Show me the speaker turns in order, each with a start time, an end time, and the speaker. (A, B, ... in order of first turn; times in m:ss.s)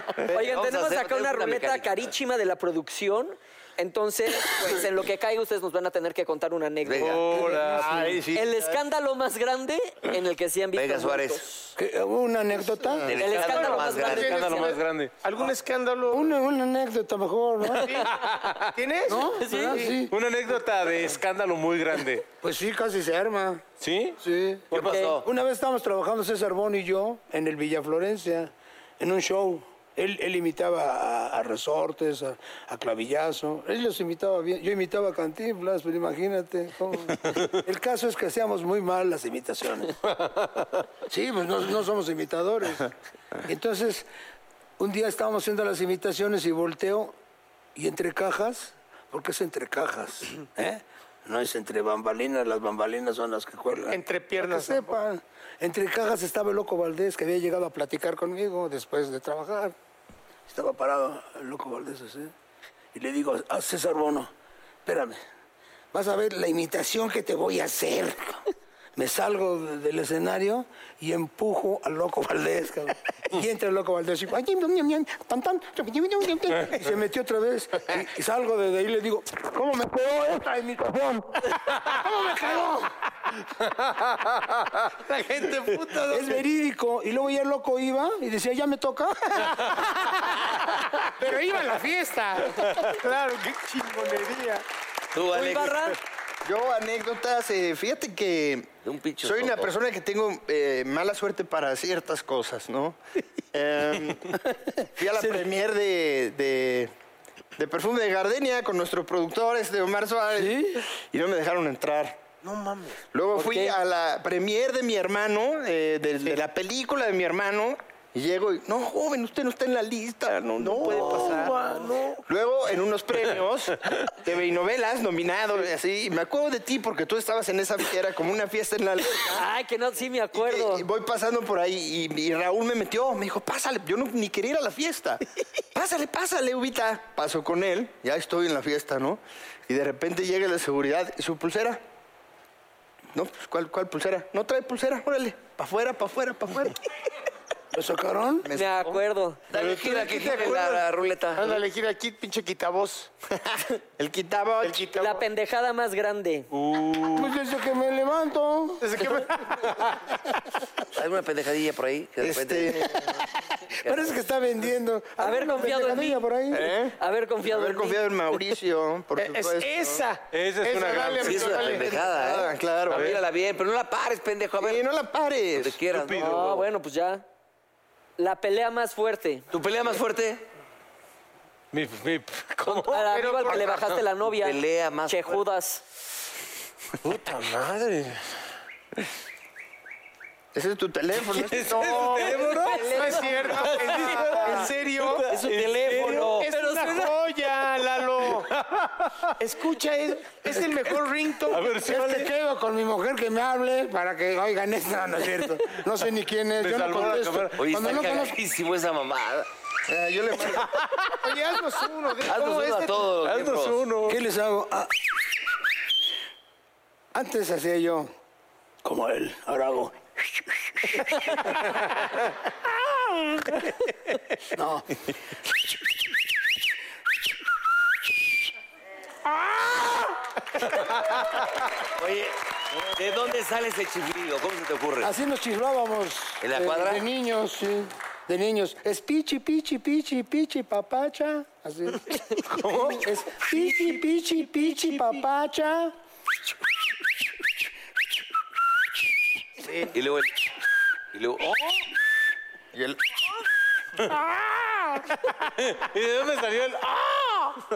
0:00.2-0:07.2 A
0:00.3-0:02.1 B
0:06.8-0:07.3 B
0:07.0-0:08.3 C
0:07.4-0:08.8 D
0:07.4-0:07.9 E
0:08.3-0:11.7 A
0:10.7-0:11.5 B
0:11.8-0:13.1 E
0:13.0-0:13.3 D
0:13.0-0:14.7 B
0:13.2-0:14.6 A
0:13.3-0:16.3 F
0:14.2-0:15.2 C
0:16.1-0:18.0 E
0:17.8-0:18.2 F
0:18.1-0:18.7 C
0:18.7-0:20.0 F
0:19.1-0:20.1 E
0:19.4-0:19.8 A
0:20.1-0:22.3 C
0:22.4-0:23.6 E
0:23.8-0:24.2 C
0:24.2-0:24.6 E
0:24.7-0:25.3 B
0:24.7-0:25.2 A
0:25.2-0:40.0 E
0:40.1-0:40.8 C
0:41.1-0:42.9 E
0:43.4-0:44.1 E
0:44.8-0:47.2 E
0:47.8-0:59.8 E
0:53.9-0:55.0 F
1:00.5-1:02.3 E
1:02.9-1:04.3 E
1:04.8-1:05.2 E
1:05.9-1:08.4 E
1:09.0-1:22.9 E
1:23.9-1:24.5 C
1:25.0-1:26.4 F
1:26.1-1:30.3 E
1:31.2-1:32.7 E
1:31.2-1:31.8 F
1:32.9-1:34.6 F
1:35.1-1:36.0 B
1:35.3-1:36.0 A
1:36.4-1:38.7 D
1:38.8-1:39.7 B
1:39.2-1:43.0 D
1:43.5-1:46.9 D
1:47.6-1:52.2 D
1:50.3-1:50.8 E
1:52.4-1:53.0 F
1:53.1-2:01.6 D
1:53.3-1:53.8 A
2:00.6-2:02.2 F
2:02.3-2:09.4 D
2:09.2-2:10.9 A
2:10.3-2:15.2 D
2:15.8-2:21.8 D
2:23.1-2:26.8 D
2:27.7-2:28.5 E
2:28.4-2:29.0 D
2:28.5-2:29.4 A
2:29.5-2:31.6 B
2:29.6-2:30.8 D
2:31.4-2:33.1 F
2:33.4-2:35.0 D
2:34.6-2:35.2 F
2:35.0-2:36.5 A
2:36.5-2:37.4 C
2:37.1-2:39.1 E
2:38.8-2:39.8 F
2:40.9-2:44.2 B
2:42.2-2:43.1 D
2:43.7-2:46.7 E
2:45.2-2:46.2 A
2:46.5-2:50.0 D
2:46.9-2:48.0 A
2:49.2-2:52.0 F
2:50.3-2:51.3 C
2:50.7-2:53.2 D
2:51.2-2:54.8 B
2:52.9-2:53.2 C
2:54.6-2:55.8 D
2:55.6-2:56.6 B
2:55.9-2:56.6 C
2:56.2-2:57.2 A
2:58.2-2:59.5 A
2:59.5-3:00.4 B
3:01.7-3:04.0 C
3:02.7-3:05.8 A
3:03.0-3:03.7 F
3:04.3-3:05.4 B
3:07.0-3:08.4 C
3:10.5-3:12.4 D
3:11.2-3:17.1 C
3:11.8-3:18.5 F
3:12.3-3:14.6 A
3:15.3-3:16.4 B
3:15.5-3:16.9 A
3:18.2-3:19.3 C
3:19.4-3:21.7 F
3:20.4-3:21.0 C
3:21.5-3:22.3 C
3:21.8-3:28.4 E
3:26.6-3:28.0 C
3:27.5-3:29.5 B
3:29.9-3:30.8 D
3:30.6-3:31.1 C
3:31.2-3:33.0 F
3:32.2-3:33.9 B
3:33.2-3:34.2 C
3:34.0-3:35.1 E
3:37.1-3:38.1 E
3:38.8-3:41.6 E
3:44.5-3:45.0 E
3:49.4-3:50.1 E
3:51.8-3:52.3 B
3:52.9-3:55.1 B
3:55.0-4:05.9 E
3:56.4-3:57.0 B
4:02.6-4:03.0 C
4:03.5-4:04.0 F
4:04.7-4:05.2 F
4:09.6-4:09.9 F
4:09.9-4:10.3 B
4:11.1-4:11.7 B
4:12.7-4:13.0 D
4:14.1-4:15.1 E
4:15.2-4:17.6 C